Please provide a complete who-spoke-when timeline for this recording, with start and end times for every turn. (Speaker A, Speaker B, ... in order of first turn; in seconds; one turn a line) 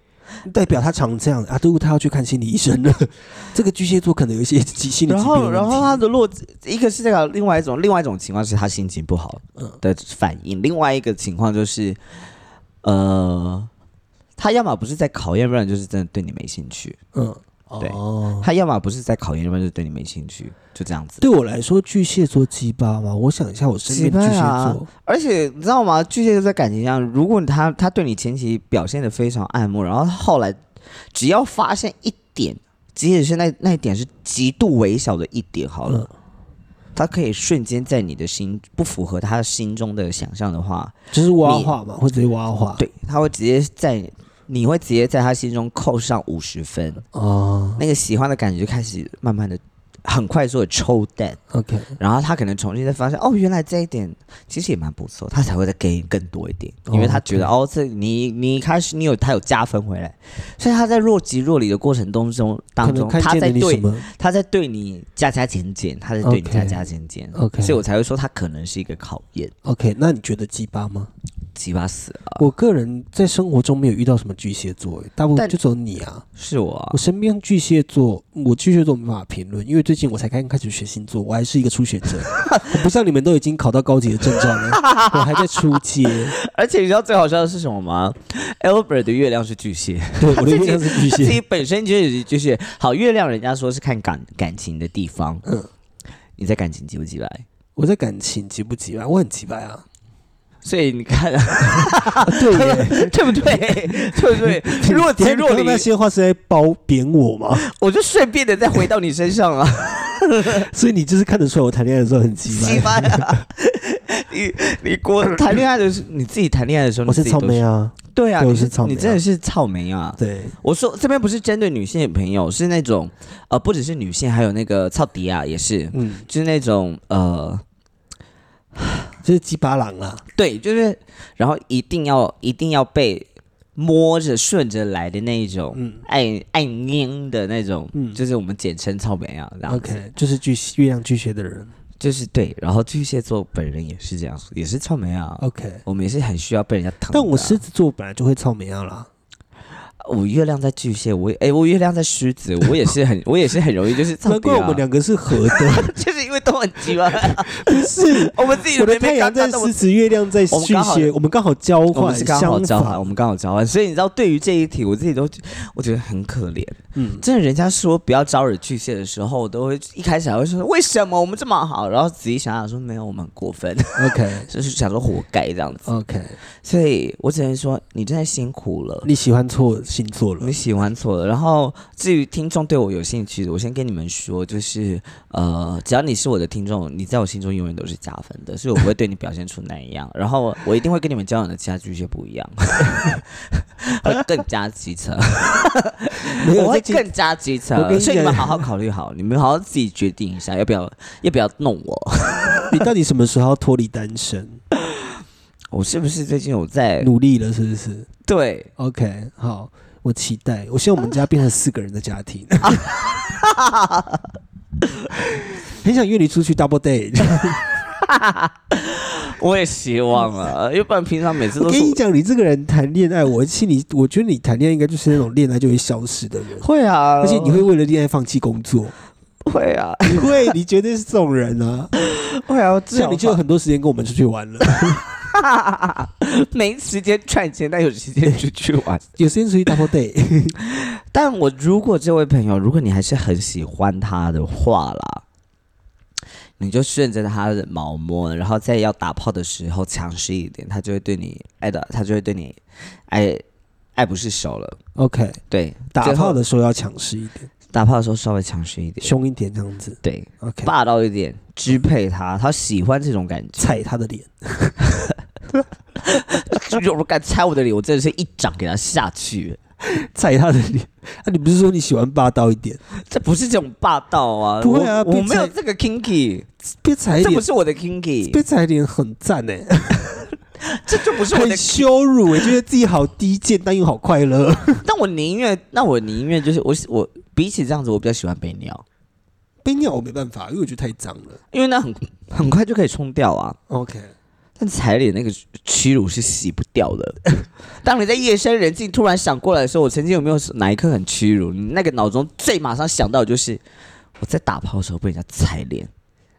Speaker A: 0.4-6.0
Speaker B: 5.1-12.0
Speaker B: 12.8-13.7
Speaker B: 14.4-17.0
Speaker A: 17.1-18.5
Speaker B: 17.8-21.2
Speaker A: 21.2-24.9
Speaker B: 23.9-30.6
Speaker B: 31.1-36.1
Speaker B: 36.9-41.7
Speaker A: 41.1-42.8
Speaker B: 42.8-47.0
Speaker A: 47.1-47.8
Speaker B: 47.8-51.4
Speaker A: 51.5-51.9
Speaker B: 52.0-69.5
Speaker A: 56.9-57.5
Speaker A: 62.8-64.0
Speaker A: 66.2-66.8
Speaker A: 67.3-67.8
Speaker A: 69.6-71.1
Speaker B: 71.5-72.4
Speaker A: 72.4-76.2
Speaker B: 76.3-77.0
Speaker A: 76.9-86.3
Speaker B: 84.7-85.7
Speaker B: 86.3-95.4
Speaker A: 90.2-91.4
Speaker B: 96.4-97.4
Speaker A: 97.8-99.8
Speaker B: 100.6-105.8
Speaker A: 102.2-107.6
Speaker B: 107.6-110.7
Speaker A: 110.5-113.4
Speaker B: 112.5-127.6
Speaker A: 117.1-119.2
Speaker A: 120.2-120.5
Speaker A: 125.9-126.2
Speaker A: 129.2-130.2
Speaker B: 130.3-139.9
Speaker A: 135.7-136.0
Speaker A: 137.9-138.2
Speaker A: 139.7-141.7
Speaker B: 142.0-147.6
Speaker A: 145.4-145.8
Speaker A: 147.1-149.1
Speaker B: 150.0-154.8
Speaker A: 154.2-155.9
Speaker B: 155.5-159.7
Speaker A: 157.2-163.0
Speaker B: 160.5-161.1
Speaker B: 161.9-175.8
Speaker A: 166.9-167.2
Speaker A: 174.0-174.5
Speaker A: 175.8-176.4
Speaker B: 176.6-179.1
Speaker A: 179.0-180.5
Speaker B: 180.4-202.8
Speaker A: 196.4-197.1
Speaker A: 197.7-198.6
Speaker A: 202.7-204.6
Speaker B: 205.7-207.1
Speaker A: 207.0-208.1
Speaker B: 208.2-208.7
Speaker A: 208.8-212.9
Speaker B: 212.8-214.2
Speaker A: 215.8-217.6
Speaker B: 218.0-222.0
Speaker A: 221.6-226.7
Speaker B: 226.6-227.6
Speaker A: 227.2-228.9
Speaker B: 229.4-230.4
Speaker A: 230.1-231.9
Speaker B: 232.0-233.4
Speaker A: 232.9-235.0
Speaker B: 235.3-239.0
Speaker A: 239.2-240.5
Speaker B: 240.8-245.2
Speaker B: 246.6-253.4
Speaker B: 253.9-254.8
Speaker A: 254.9-255.4
Speaker B: 255.5-256.4
Speaker A: 255.9-257.5
Speaker B: 257.7-259.1
Speaker A: 259.0-260.7
Speaker B: 260.0-263.8
Speaker A: 263.6-264.8
Speaker B: 266.0-269.6
Speaker A: 269.8-272.8
Speaker B: 273.0-276.5
Speaker A: 274.6-275.5
Speaker A: 276.8-277.5
Speaker B: 277.2-278.4
Speaker A: 278.3-280.2
Speaker B: 280.6-281.8
Speaker A: 281.2-284.8
Speaker B: 284.8-288.8
Speaker A: 289.6-291.4
Speaker B: 291.5-293.6
Speaker A: 293.7-294.1
Speaker B: 294.6-297.2
Speaker B: 297.8-303.6
Speaker B: 304.2-305.9